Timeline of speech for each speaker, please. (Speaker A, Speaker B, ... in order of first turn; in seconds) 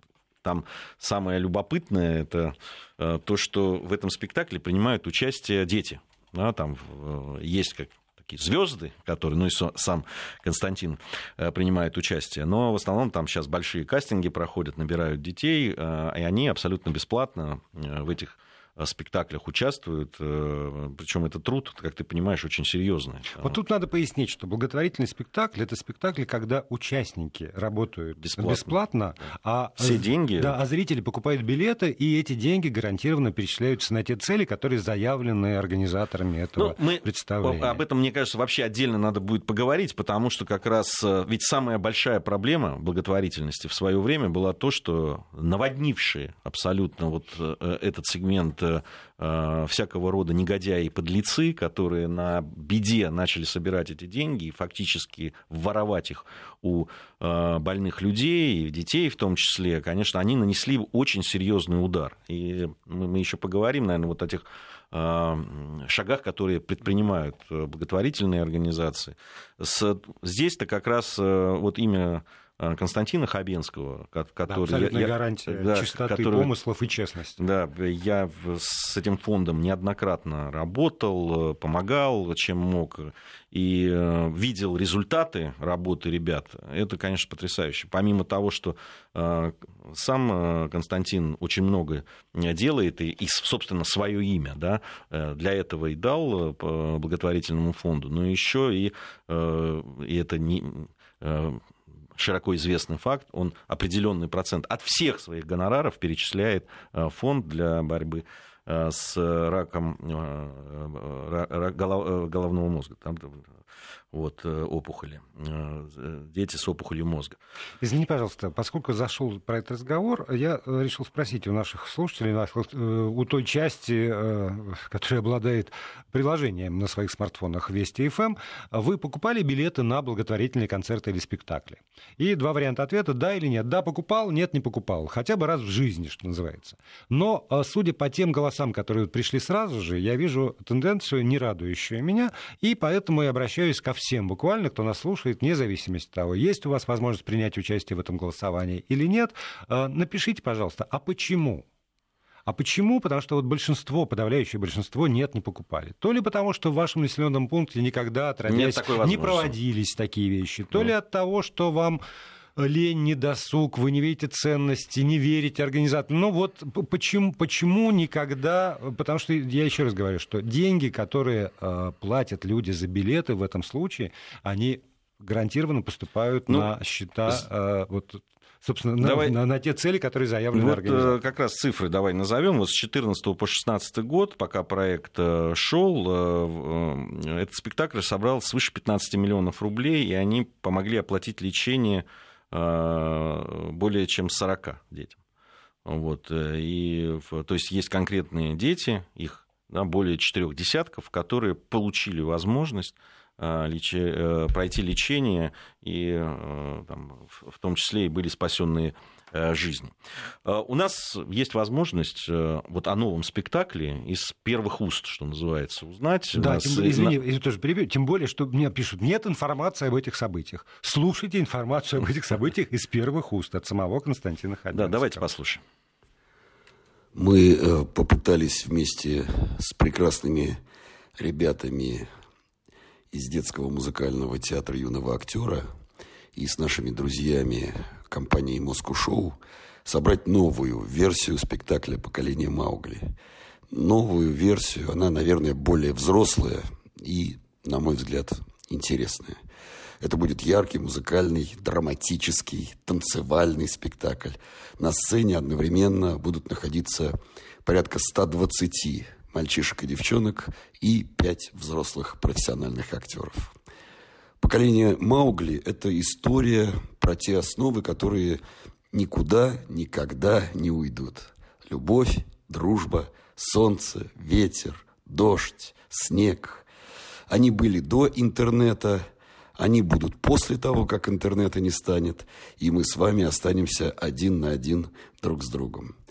Speaker A: 0.4-23.6, 28.2-28.7, 29.8-30.6, 36.6-76.5, 77.4-101.6, 102.2-113.5, 114.1-117.4, 158.5-159.5, 179.0-179.3, 180.5-195.2, 195.8-217.1, 224.7-225.6
Speaker B: 23.4-37.8, 74.5-77.4, 117.8-151.7, 152.4-162.0, 162.6-181.2, 216.3-225.2
Speaker C: 227.1-230.6, 231.2-232.1, 233.1-235.7, 236.3-243.1, 243.7-249.4, 250.0-263.5, 264.4-268.4, 268.9-276.7, 277.3-279.0, 279.6-285.9